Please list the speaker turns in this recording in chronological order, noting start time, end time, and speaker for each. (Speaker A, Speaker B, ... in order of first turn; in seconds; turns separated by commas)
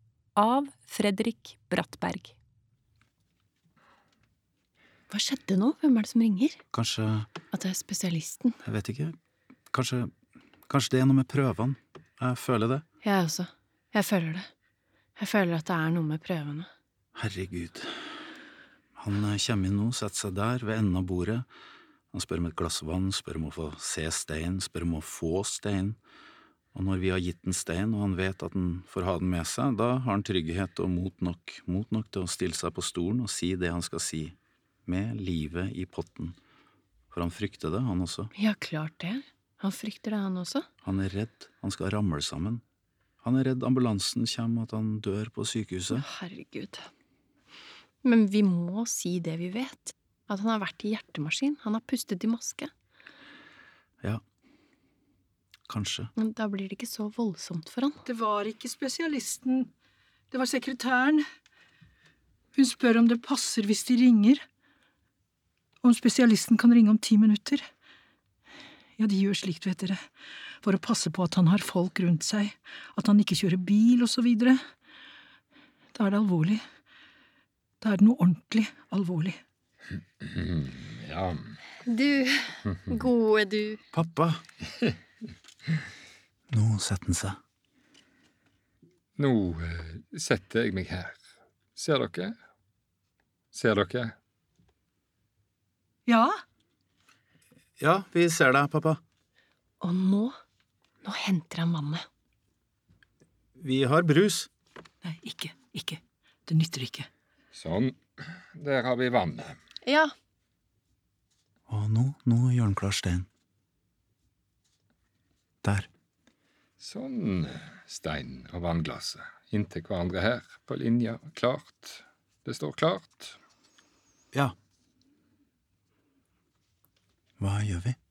Speaker A: 0.3-2.3, Speaker B: 5.1-6.6, Speaker C: 6.7-7.3, Speaker B: 7.5-8.6, Speaker C: 8.6-9.1, Speaker C: 9.7-10.1, Speaker C: 10.7-12.8, Speaker B: 13.0-14.5, Speaker B: 15.2-16.7, Speaker C: 17.1-17.9, Speaker C: 19.0-21.5, Speaker C: 22.1-26.0, Speaker C: 26.7-36.4, Speaker C: 37.1-38.3, Speaker B: 38.3-40.6, Speaker C: 40.8-42.6, Speaker C: 43.2-46.1, Speaker B: 45.9-46.9, Speaker B: 48.0-52.7, Speaker C: 55.7-56.1, Speaker B: 56.2-58.0, Speaker D: 58.0-59.7, Speaker D: 60.3-61.2, Speaker D: 62.5-64.4, Speaker D: 65.8-67.6, Speaker D: 69.0-70.0, Speaker D: 70.6-74.6, Speaker D: 75.9-76.6, Speaker D: 77.8-79.4, Speaker E: 80.2-81.6, Speaker B: 81.8-83.8, Speaker C: 83.9-84.4, Speaker C: 86.5-87.4, Speaker E: 89.2-91.2, Speaker E: 91.8-92.3, Speaker E: 93.5-94.1, Speaker D: 96.1-96.3, Speaker C: 97.8-99.0, Speaker B: 99.8-100.3, Speaker B: 101.0-102.0, Speaker C: 103.6-104.5, Speaker D: 105.0-107.1, Speaker E: 107.5-108.0, Speaker E: 108.5-109.6, Speaker B: 109.8-110.1, Speaker C: 111.7-113.3, Speaker C: 115.6-115.9, Speaker E: 116.8-123.4, Speaker C: 127.4-128.0